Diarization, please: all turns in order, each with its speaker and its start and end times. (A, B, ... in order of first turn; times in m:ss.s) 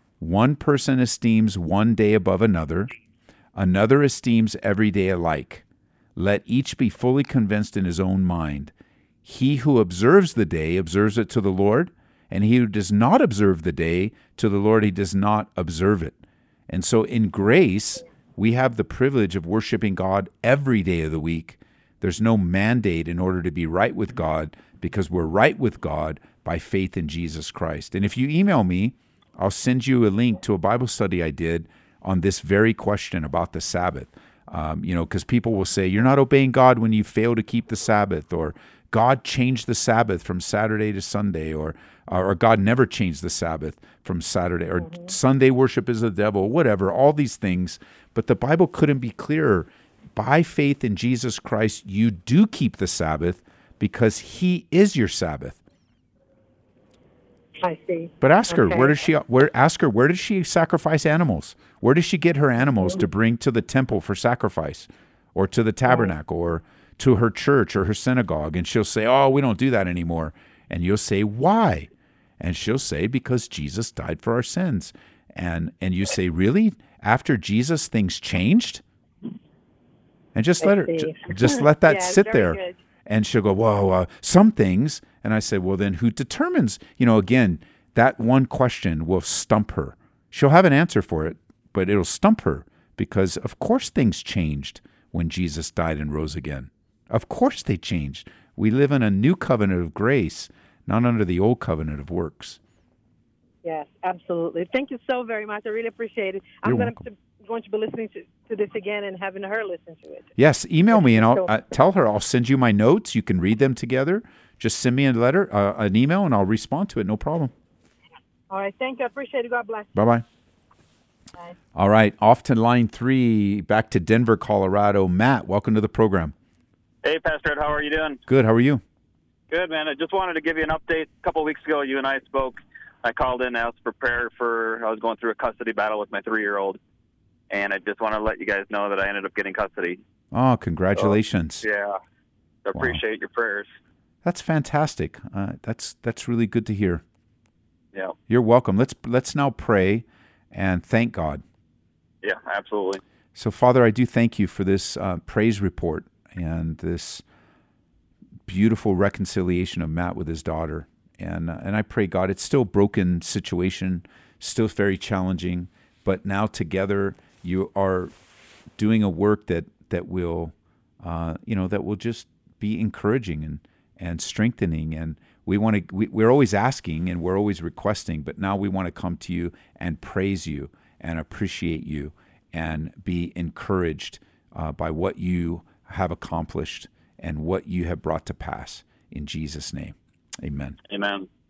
0:00.2-0:02.9 A
0:03.6-0:05.6 A
0:06.2-0:08.7 A
0:09.2-0:16.2 A
0:16.7-0:55.6 A
0:57.6-0:59.0 B
0:58.2-1:11.9 A
1:12.4-1:18.8 A
1:20.4-1:42.6 A
1:20.6-1:22.8 B
1:43.6-1:50.3 B
1:46.6-1:47.0 A
1:50.4-1:57.5 A
1:50.9-1:51.5 B
1:58.5-1:59.9 B
1:59.9-2:00.2 A
2:01.8-2:06.3 A
2:07.0-2:08.2 C
2:08.3-2:08.8 A
2:09.5-2:16.8 C
2:17.5-2:20.0 C
2:20.3-2:21.6 A
2:21.0-2:22.0 C
2:22.6-2:23.7 C
2:24.2-2:27.0 A
2:28.3-2:31.4 A
2:32.2-2:33.0 C
2:33.4-2:37.2 A
2:38.5-2:48.1 A
2:48.8-3:10.8 A
3:10.9-3:11.3 C